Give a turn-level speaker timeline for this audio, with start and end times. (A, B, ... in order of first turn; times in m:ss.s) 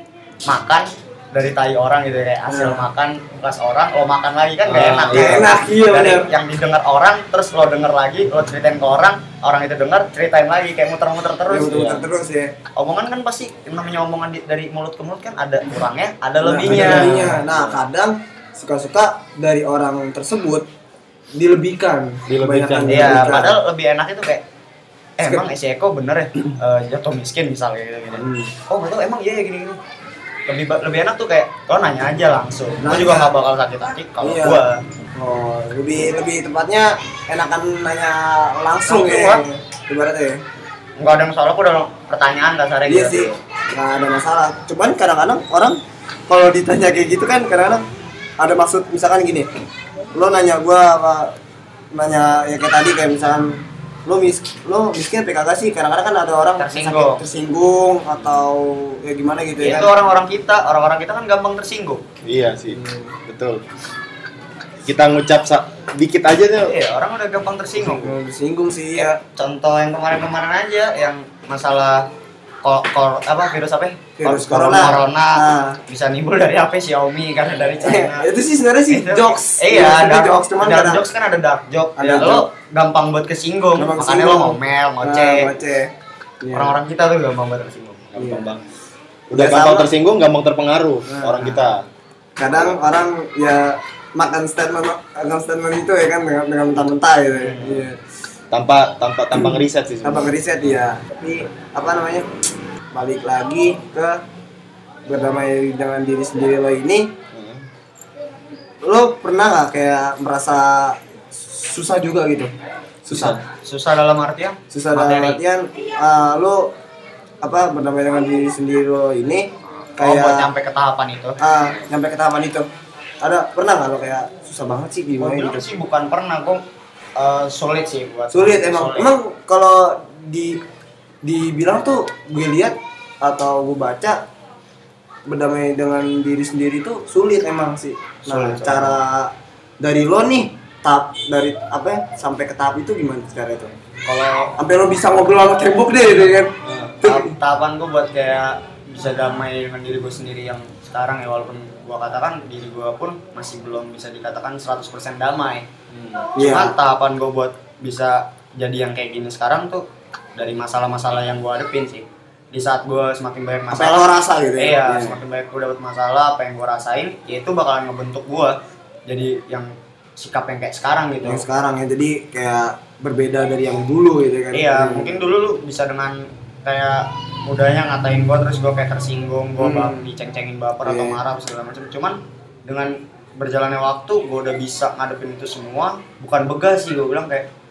0:00.4-0:11.7 A
0:02.5-0:02.9 B
0:04.7-0:05.6 C
0:05.1-0:06.3 B
0:11.5-0:12.5 B
0:11.6-0:12.0 C
0:12.8-0:17.3 A
0:16.4-0:20.7 B
0:16.7-0:17.8 C
0:21.4-0:23.6 B
0:22.3-0:23.5 C
0:22.9-0:24.4 A
0:25.2-0:29.8 A
0:28.2-0:28.5 B
0:30.5-0:34.8 A
0:32.8-0:33.3 B
0:34.2-0:34.6 B
0:35.2-0:40.4 B
0:38.9-0:39.4 A
0:41.0-0:43.3 A
0:42.9-0:47.8 B
0:48.4-0:49.5 B
0:50.1-0:51.4 B
0:51.9-0:59.9 B
0:56.6-0:57.2 A
0:59.6-1:02.0 A
1:02.2-1:03.6 C
1:02.7-1:03.2 B
1:04.9-1:06.7 C
1:06.6-1:08.1 A
1:07.8-1:09.2 B
1:09.0-1:12.1 A
1:12.6-1:18.2 A
1:14.2-1:15.8 B
1:17.8-1:21.0 B
1:18.9-1:25.5 A
1:22.0-1:22.4 B
1:23.8-1:25.9 B
1:26.4-1:26.8 B
1:26.5-1:28.0 A
1:28.1-1:28.6 C
1:28.2-1:28.5 B
1:29.3-1:31.8 C
1:29.3-1:29.9 B
1:31.1-1:31.6 B
1:32.4-1:38.0 B
1:32.5-1:32.8 C
1:38.5-1:40.3 C
1:39.4-1:42.3 B
1:42.9-1:44.2 B
1:45.1-1:47.1 B
1:47.3-1:47.6 C
1:48.8-1:52.5 B
1:53.1-1:53.4 B
1:53.1-1:53.4 C
1:53.5-1:55.4 A
1:54.7-1:56.7 B
1:57.4-2:00.5 B
2:00.0-2:01.4 A
2:01.4-2:02.7 B
2:03.2-2:05.7 B
2:05.2-2:06.6 A
2:07.2-2:09.2 A
2:08.3-2:10.6 B
2:11.2-2:14.2 B
2:15.3-2:23.7 B
2:18.3-2:19.0 C
2:24.1-2:24.5 A
2:24.6-2:27.3 B
2:26.6-2:27.0 C
2:27.0-2:35.7 A
2:35.9-2:36.3 C
2:36.4-2:36.8 B
2:36.4-2:39.8 A
2:40.4-2:44.0 A
2:43.7-2:45.2 B
2:44.6-2:51.4 A
2:51.2-2:55.1 B
2:54.5-3:07.5 A
2:59.6-3:00.1 B
3:00.8-3:01.2 B